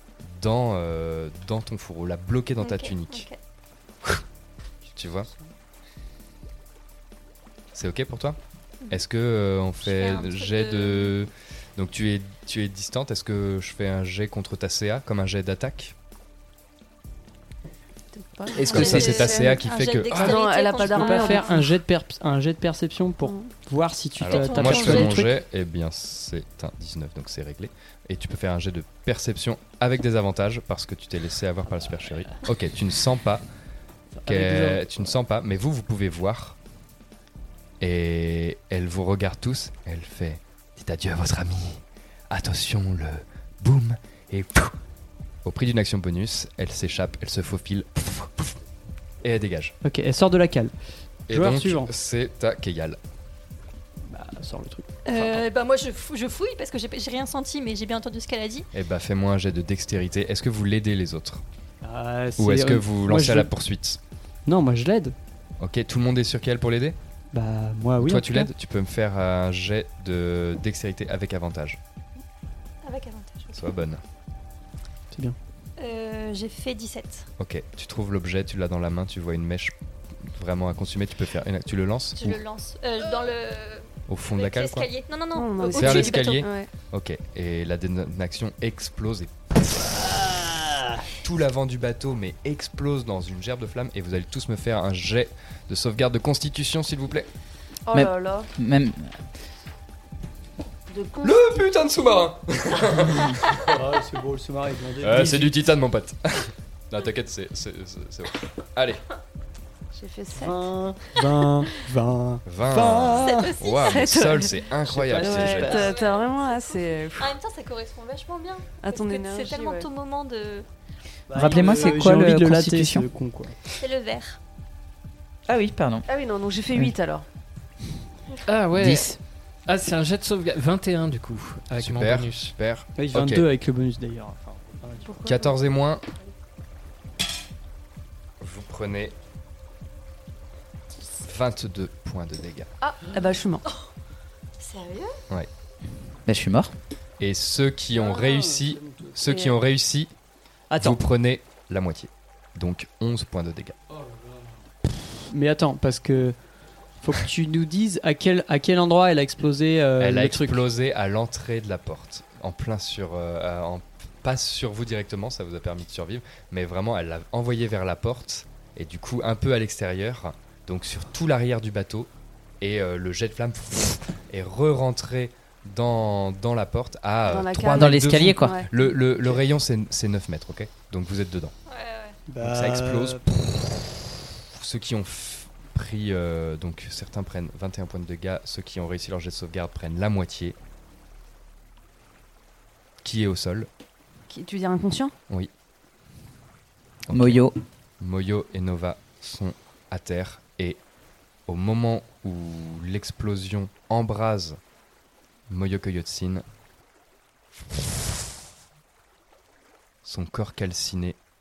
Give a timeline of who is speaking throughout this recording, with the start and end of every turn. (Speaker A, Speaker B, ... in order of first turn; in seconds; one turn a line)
Speaker A: 0.2-3.3
Speaker B: 2.6-3.4
Speaker A: 4.9-5.3
Speaker A: 7.7-8.4
Speaker A: 8.9-15.9
Speaker B: 9.8-11.2
Speaker C: 18.1-21.7
Speaker A: 18.6-20.4
Speaker B: 18.6-21.6
Speaker D: 20.9-25.4
Speaker C: 23.2-23.5
Speaker A: 24.2-33.5
Speaker B: 24.3-25.2
Speaker D: 34.1-35.1
Speaker A: 34.2-36.6
Speaker A: 37.8-44.7
Speaker A: 45.4-48.6
Speaker A: 49.2-49.8
Speaker D: 49.8-50.7
Speaker D: 51.3-51.9
Speaker A: 51.3-53.0
Speaker D: 54.1-55.5
Speaker B: 55.0-58.6
Speaker A: 58.7-61.4
Speaker D: 61.8-63.5
Speaker A: 62.4-64.0
Speaker D: 64.5-65.1
Speaker A: 65.6-67.0
Speaker D: 67.3-68.5
Speaker A: 68.0-71.8
Speaker B: 72.8-73.7
Speaker A: 73.5-74.0
Speaker D: 75.1-75.4
Speaker B: 75.8-77.3
Speaker A: 77.4-79.7
Speaker A: 80.3-82.4
Speaker B: 82.2-86.5
Speaker A: 84.1-84.9
Speaker C: 85.3-86.7
Speaker A: 85.6-89.3
Speaker A: 91.2-97.3
Speaker C: 97.9-98.5
Speaker E: 97.9-99.2
Speaker C: 100.9-101.5
Speaker A: 101.2-103.8
Speaker D: 103.7-105.6
Speaker A: 105.0-109.0
Speaker C: 109.9-110.7
Speaker D: 110.4-113.5
Speaker A: 112.5-115.8
Speaker B: 113.2-114.1
Speaker C: 114.0-114.4
Speaker D: 114.9-115.9
Speaker C: 115.1-117.4
Speaker B: 115.7-120.7
Speaker C: 118.8-119.9
Speaker D: 121.3-123.5
Speaker E: 121.4-123.1
Speaker B: 121.5-121.9
Speaker B: 123.8-124.4
Speaker E: 125.5-126.0
Speaker C: 126.1-127.2
Speaker F: 128.5-129.1
Speaker E: 128.7-129.2
Speaker F: 129.7-132.5
Speaker A: 131.7-133.5
Speaker D: 132.9-135.2
Speaker A: 135.2-136.0
Speaker A: 138.4-139.1
Speaker A: 141.2-142.7
Speaker C: 142.8-143.6
Speaker B: 144.6-145.1
Speaker E: 146.2-146.7
Speaker A: 147.2-150.1
Speaker D: 148.0-149.2
Speaker D: 150.7-151.0
Speaker A: 150.8-153.8
Speaker D: 155.3-156.4
Speaker D: 157.0-160.6
Speaker A: 160.0-172.1
Speaker A: 172.6-181.5
Speaker C: 177.2-178.9
Speaker E: 177.7-178.6
Speaker B: 181.7-182.2
Speaker D: 182.3-183.2
Speaker A: 182.4-183.6
Speaker A: 184.5-190.6
Speaker A: 193.0-193.7
Speaker C: 194.3-195.1
Speaker A: 197.1-197.5
Speaker E: 197.1-197.5
Speaker A: 198.0-200.8
Speaker A: 201.5-204.6
Speaker A: 205.5-206.4
Speaker A: 210.0-211.2